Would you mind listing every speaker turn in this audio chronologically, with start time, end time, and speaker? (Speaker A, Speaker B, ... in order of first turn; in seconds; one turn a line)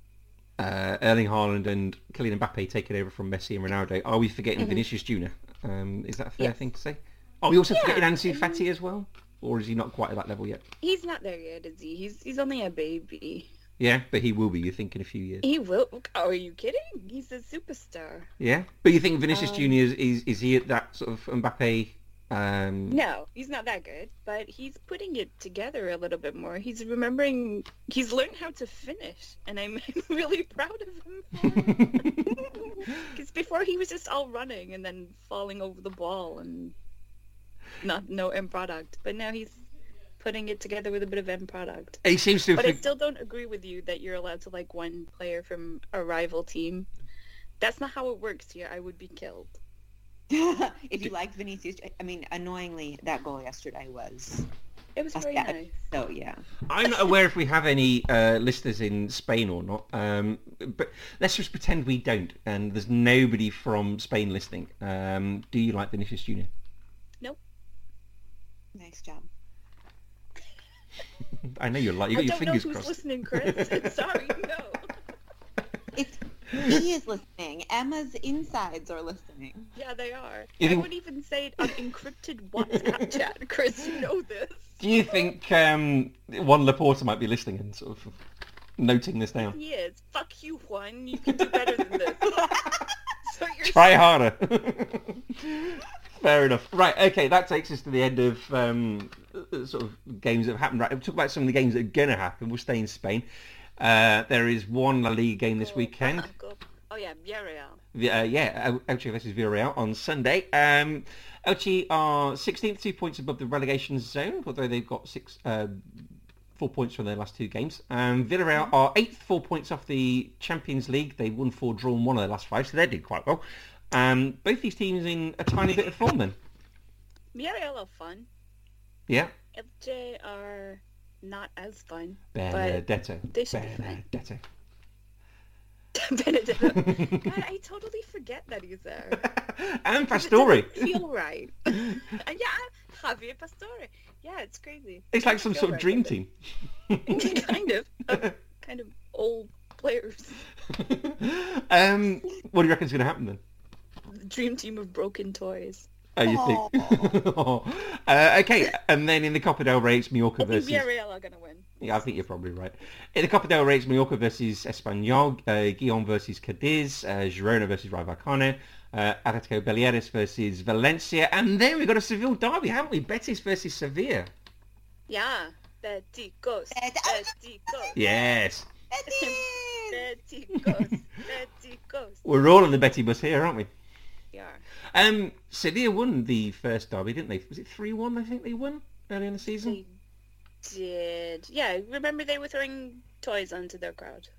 Speaker A: 0.6-10.6
Speaker B: 7.7-8.6
Speaker B: 10.8-13.5
Speaker A: 13.8-15.4
Speaker B: 15.4-18.3
Speaker A: 18.4-23.0
Speaker B: 19.3-19.8
Speaker B: 22.9-32.1
Speaker A: 31.5-32.2
Speaker B: 32.9-36.7
Speaker B: 37.8-39.6
Speaker B: 40.2-42.0
Speaker A: 42.0-42.8
Speaker B: 42.5-46.9
Speaker B: 47.6-49.6
Speaker C: 50.3-54.5
Speaker B: 55.0-55.8
Speaker C: 55.1-56.4
Speaker A: 56.7-66.5
Speaker C: 68.7-69.2
Speaker A: 71.4-73.9
Speaker B: 72.1-74.9
Speaker C: 75.9-79.7
Speaker B: 79.8-85.2
Speaker A: 80.6-80.9
Speaker A: 82.8-83.0
Speaker A: 84.8-88.2
Speaker A: 88.8-89.5
Speaker B: 89.4-94.0
Speaker A: 93.6-103.2
Speaker A: 103.8-106.3
Speaker B: 105.5-107.8
Speaker A: 107.9-116.0
Speaker A: 116.5-126.3
Speaker B: 127.3-128.3
Speaker A: 129.1-129.3
Speaker B: 129.5-134.0
Speaker A: 132.3-134.4
Speaker B: 135.9-139.2
Speaker A: 136.6-137.2
Speaker A: 139.2-141.0
Speaker B: 140.1-146.1
Speaker A: 145.1-146.3
Speaker A: 146.9-147.4
Speaker B: 147.1-150.4
Speaker A: 150.7-153.4
Speaker B: 154.1-155.9
Speaker A: 156.2-160.8
Speaker C: 156.2-157.2
Speaker B: 160.4-161.7
Speaker A: 161.8-174.3
Speaker B: 175.1-178.0
Speaker C: 176.7-178.2
Speaker A: 177.9-178.7
Speaker C: 178.9-180.0
Speaker B: 179.1-182.2
Speaker A: 182.2-183.7
Speaker B: 184.3-184.6
Speaker A: 184.9-189.8
Speaker B: 189.6-189.9
Speaker B: 190.6-194.3